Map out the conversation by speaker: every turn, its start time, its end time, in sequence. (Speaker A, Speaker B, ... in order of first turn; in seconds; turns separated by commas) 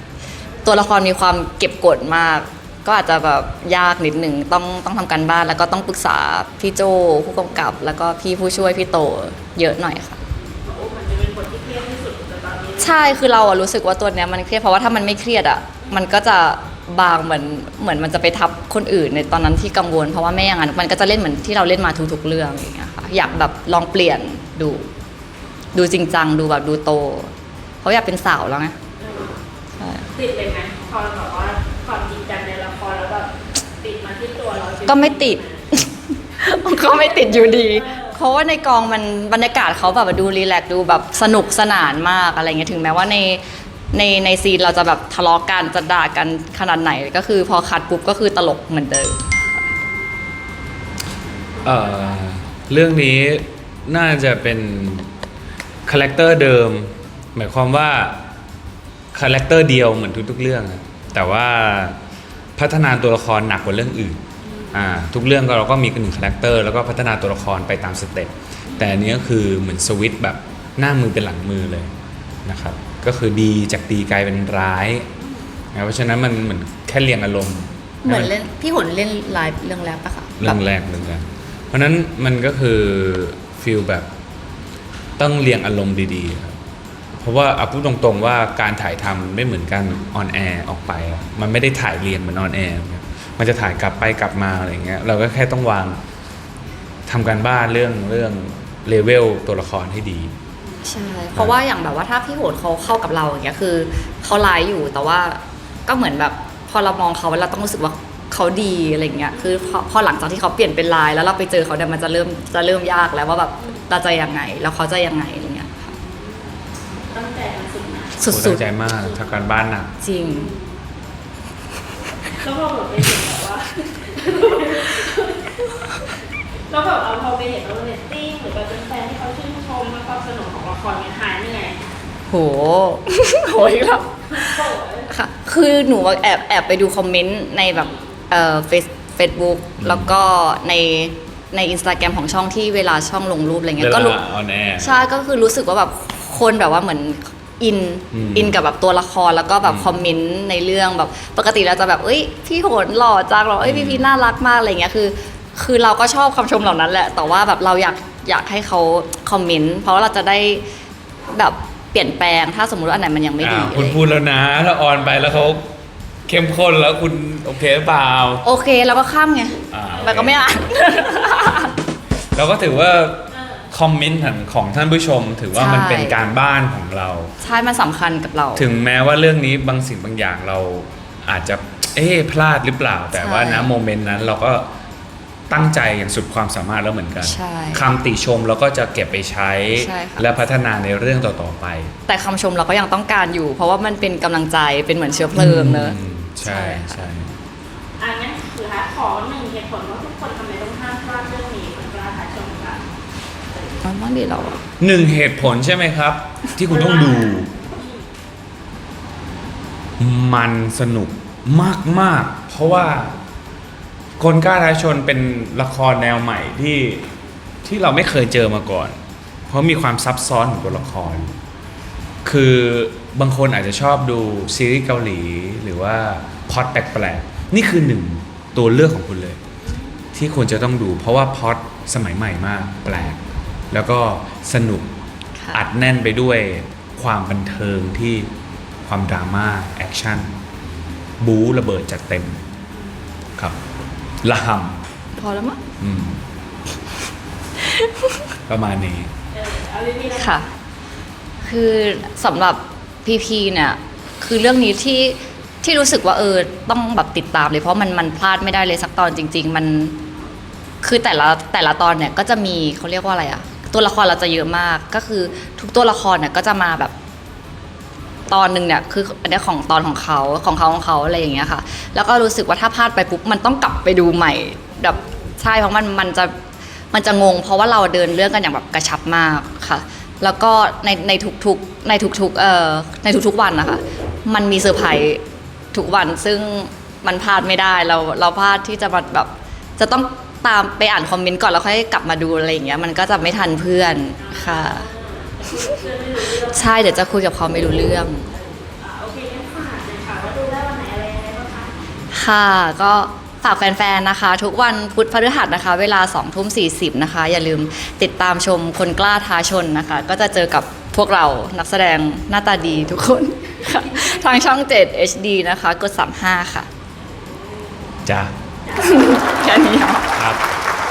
Speaker A: 0.7-10.2, Speaker B: 10.4-13.3, Speaker A: 12.8-24.9, Speaker A: 25.7-27.3, Speaker A: 27.8-28.8, Speaker B: 29.0-29.4, Speaker A: 29.8-30.1, Speaker B: 30.1-35.8, Speaker A: 34.9-49.2, Speaker B: 36.9-38.2, Speaker C: 51.6-55.1, Speaker C: 55.9-58.2, Speaker C: 59.1-62.0, Speaker C: 62.6-64.2, Speaker B: 64.5-64.8, Speaker C: 64.7-71.9, Speaker B: 68.7-69.0, Speaker C: 72.5-75.1, Speaker B: 75.2-75.5, Speaker C: 75.7-78.3, Speaker A: 78.0-80.6, Speaker C: 80.4-84.1, Speaker C: 85.2-86.6, Speaker C: 87.2-96.0, Speaker C: 97.1-100.3, Speaker A: 100.8-115.9, Speaker B: 109.3-109.8, Speaker B: 115.9-116.5, Speaker B: 117.1-118.2, Speaker A: 118.2-118.6, Speaker C: 118.3-119.9, Speaker B: 118.9-119.5, Speaker A: 120.0-120.5, Speaker B: 120.2-120.8, Speaker B: 122.4-125.8, Speaker B: 126.7-131.9, Speaker A: 132.3-144.2, Speaker B: 134.3-135.1, Speaker B: 137.7-138.2, Speaker C: 139.8-140.1, Speaker C: 143.8-145.0, Speaker A: 144.8-160.6, Speaker C: 148.1-148.6, Speaker C: 149.6-149.9, Speaker C: 153.6-154.1, Speaker A: 161.3-164.0, Speaker C: 163.4-165.7, Speaker C: 166.3-168.5, Speaker A: 168.4-171.7, Speaker C: 169.7-170.7, Speaker C: 172.3-177.3, Speaker B: 173.3-173.7, Speaker A: 175.5-176.2, Speaker A: 177.4-178.7, Speaker C: 178.6-184.7, Speaker A: 183.1-183.7, Speaker C: 185.5-191.9, Speaker A: 187.2-187.9, Speaker A: 189.8-190.3, Speaker A: 192.1-197.0, Speaker C: 195.3-197.4, Speaker B: 198.0-202.8, Speaker A: 203.8-204.6, Speaker C: 204.8-207.5, Speaker B: 206.7-208.1, Speaker C: 210.0-213.2, Speaker C: 214.2-217.1, Speaker C: 217.6-221.4, Speaker C: 222.2-229.4, Speaker B: 229.7-230.0, Speaker C: 230.2-233.2, Speaker C: 233.7-234.9, Speaker C: 235.5-238.3, Speaker C: 238.9-240.3, Speaker C: 241.2-242.4, Speaker C: 244.2-244.8, Speaker A: 245.2-245.6, Speaker C: 245.8-246.2, Speaker A: 247.7-248.2, Speaker C: 248.5-249.1, Speaker B: 249.3-250.4, Speaker A: 250.2-250.5, Speaker A: 251.4-260.0, Speaker A: 260.8-266.9, Speaker A: 268.3-276.3, Speaker A: 276.9-285.2, Speaker A: 285.7-294.9, Speaker B: 294.2-297.3, Speaker A: 296.5-298.3, Speaker B: 298.3-301.7, Speaker A: 302.1-316.7, Speaker C: 318.1-318.3, Speaker B: 318.6-319.8, Speaker A: 318.8-320.1, Speaker C: 320.1-320.4